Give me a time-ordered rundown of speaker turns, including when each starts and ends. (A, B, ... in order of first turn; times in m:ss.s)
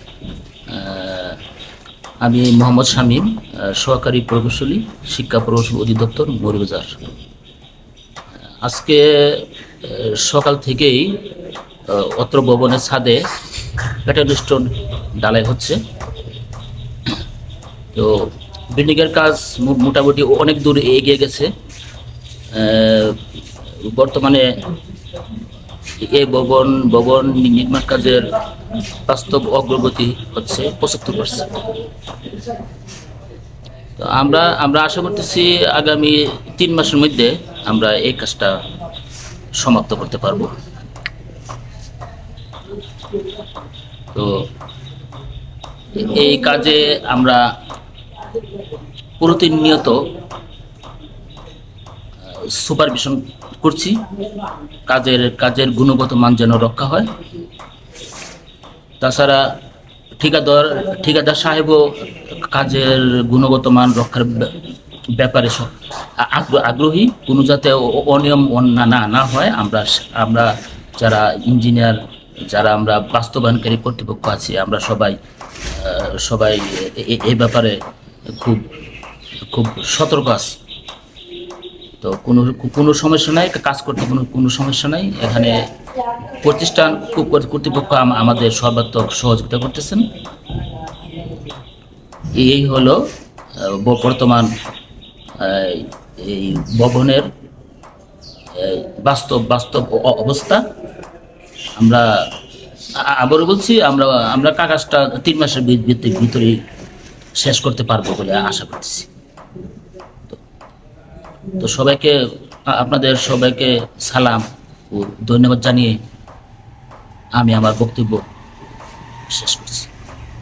0:00.7-0:01.4 A
0:02.2-0:07.0 A
0:08.6-0:11.2 A
0:11.9-0:13.2 A
0:13.9-0:15.8 A
0:17.9-0:21.5 A
0:22.5-0:23.2 A
0:23.8-0:24.4 A
0:26.0-0:28.3 A
0:29.0-0:31.6 A
0:34.0-0:38.6 A
0:39.6-0:40.6 A
0:44.1-0:44.5 A
0:45.9-0:47.4 A
0:49.2-0:50.0 A
0:52.3-0:54.0 A
0:54.9-0:57.1 A
0:59.0-0:59.4 A
1:00.2-1:04.6 A
1:05.2-1:15.2 A
1:15.7-1:17.8 A
1:18.3-1:18.6 A
1:19.4-1:20.6 A
1:22.0-1:30.1 A
1:32.4-1:33.0 A
1:33.6-1:34.5 A
1:35.4-1:37.3 A
1:38.6-1:40.6 A
1:41.8-1:42.2 A
1:43.0-1:46.6 A
1:47.4-1:49.1 A
1:51.6-1:56.0 A
1:57.4-1:58.2 A
1:59.3-1:59.9 A